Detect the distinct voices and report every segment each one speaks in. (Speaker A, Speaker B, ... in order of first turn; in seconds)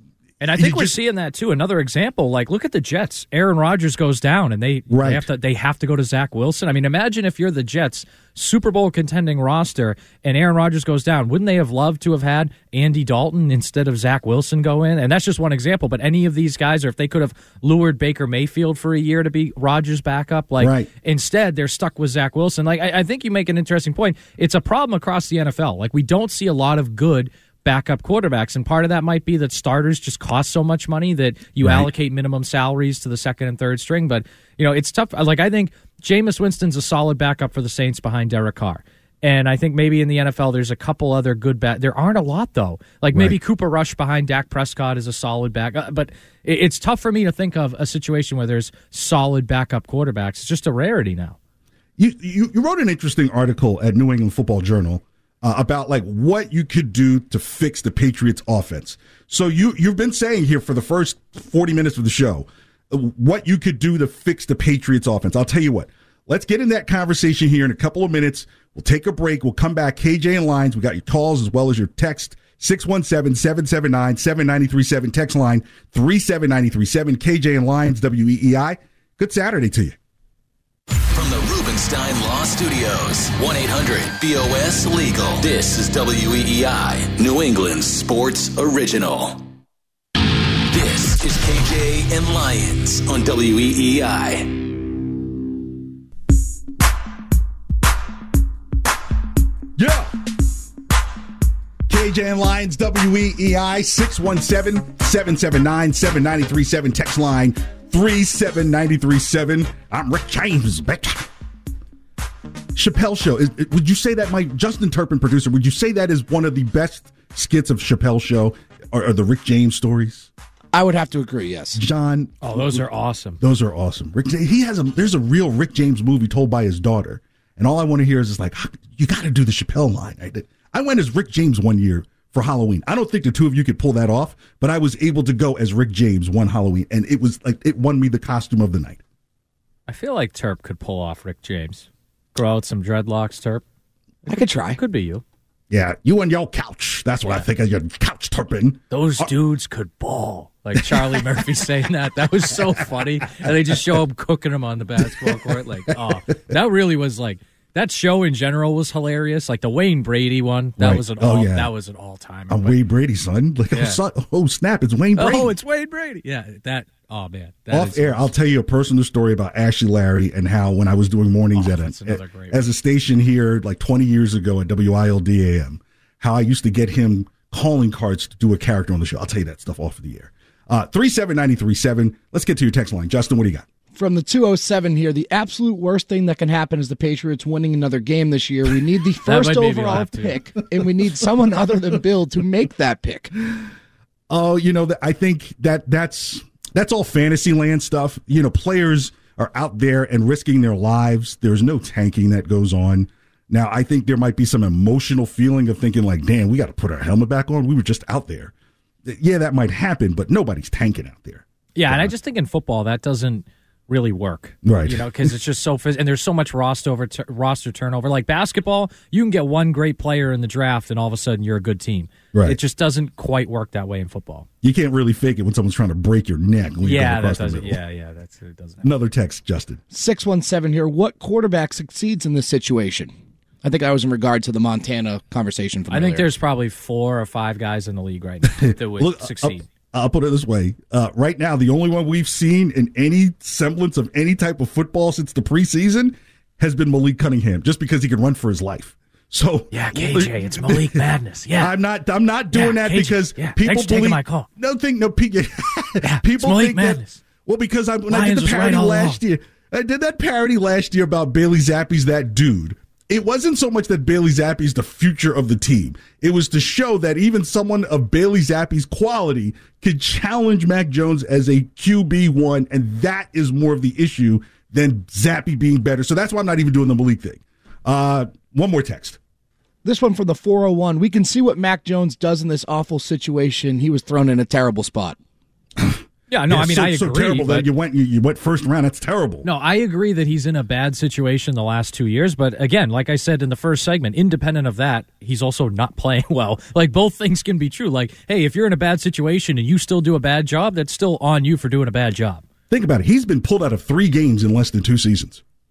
Speaker A: 0.4-51.4, 122.4-123.4, 139.9-143.6, 144.3-145.2, 148.9-162.8, 163.7-164.0, 165.2-168.3, 171.5-172.7, 189.3-190.4, 211.8-224.5, 226.8-228.9, 235.9-239.7, 249.7-251.8, 252.5-254.5, 256.0-257.2, 258.1-259.2, 286.3-287.7, 289.4-302.4
Speaker B: 0.6-1.0, 4.9-5.3, 20.6-20.9, 31.6-31.9, 52.0-80.0, 99.8-100.1, 101.9-111.3, 112.8-120.3, 121.8-122.8, 123.4-139.0, 145.7-149.3, 150.8-151.2, 155.1-156.0, 160.8-161.7, 162.5-165.5, 167.7-183.7, 194.3-208.5, 209.1-212.1, 214.6-215.3, 222.3-222.6, 224.6-227.8, 228.8-229.8, 238.4-251.0, 251.6-279.2, 285.8-289.5, 302.7-305.4
Speaker C: 81.1-89.4, 90.7-94.5
Speaker D: 120.7-121.8, 144.3-144.8, 183.9-193.3, 229.9-233.1, 233.6-236.3, 279.8-285.2